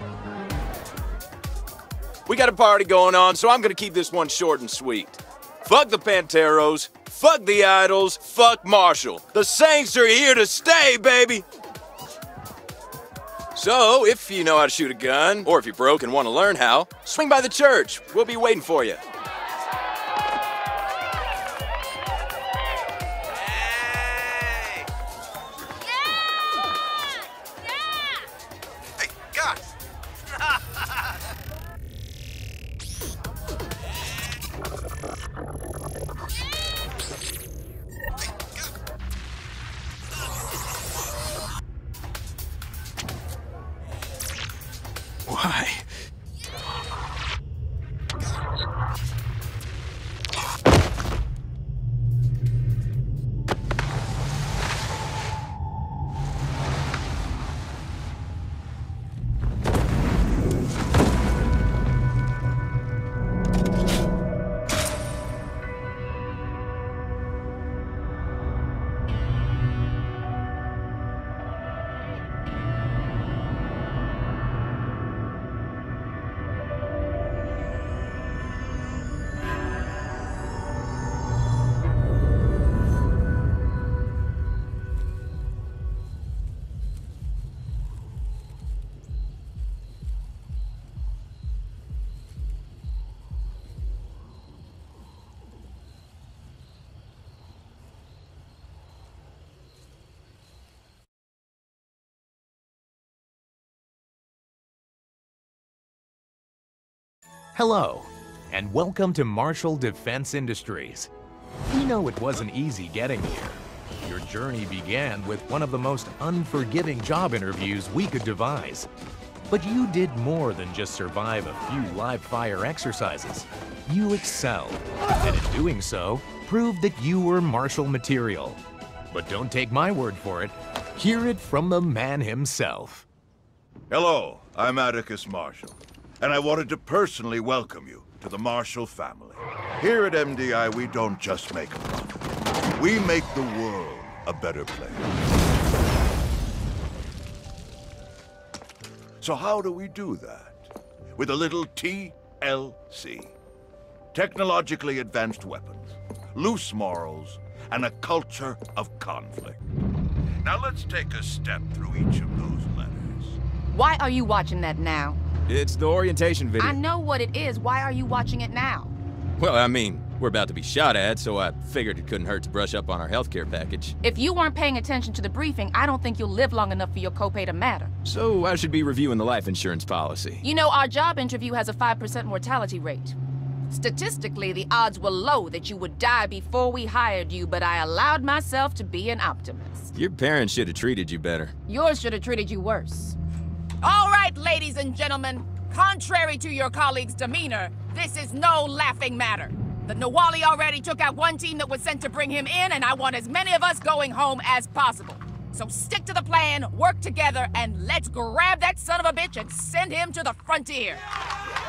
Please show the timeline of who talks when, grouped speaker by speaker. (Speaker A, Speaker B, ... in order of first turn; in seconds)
Speaker A: 2.3-11.4, 13.6-19.0, 24.0-24.6, 45.3-45.9, 165.5-166.8, 169.4-174.0, 178.1-180.4, 189.9-191.5
Speaker B: 107.5-111.1, 111.7-118.9, 119.5-133.1
Speaker C: 133.9-142.2, 142.8-145.1, 149.2-153.3, 154.1-159.6, 160.4-163.4
Speaker D: 163.7-165.2, 166.6-168.9, 174.0-177.9, 180.4-183.2, 183.7-189.9, 191.7-193.2, 193.8-211.0